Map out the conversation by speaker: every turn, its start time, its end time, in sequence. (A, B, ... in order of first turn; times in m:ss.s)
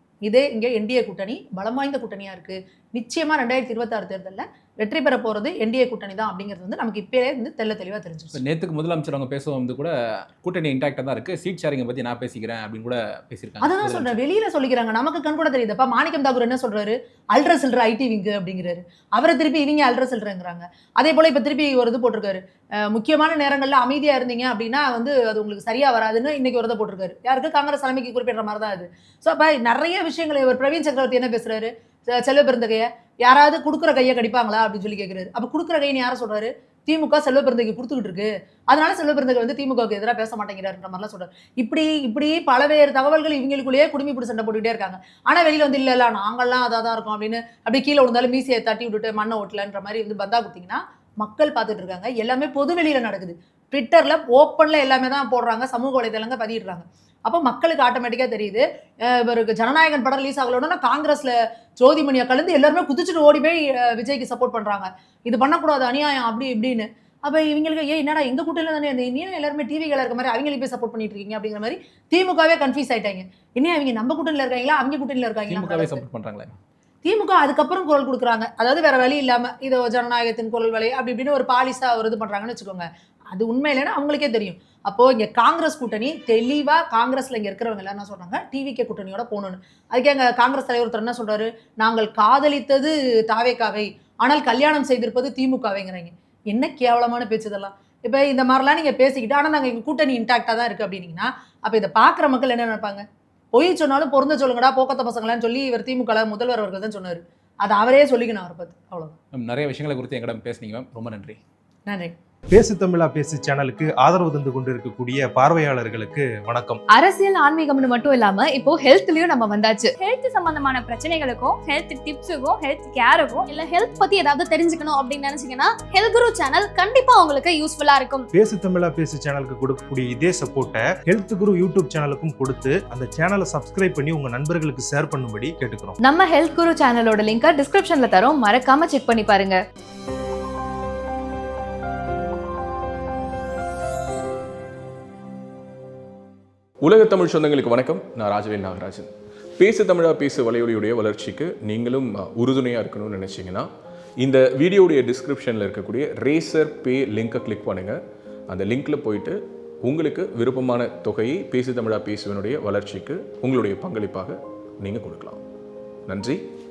0:00.2-0:08.4 A
0:08.3-0:14.2 B
0:13.6-1:16.0 A
1:15.5-1:16.6 B
1:17.0-1:43.0 A
1:43.5-1:49.2 A
1:49.3-1:51.4 B
1:51.9-1:52.1 A
1:52.5-1:56.8 C
1:56.9-1:59.9 D
2:00.0-2:08.3 E
2:08.3-2:16.0 C
2:16.0-2:19.6 D
2:26.8-2:33.7 F
2:34.2-2:45.4 F
2:46.1-2:46.4 F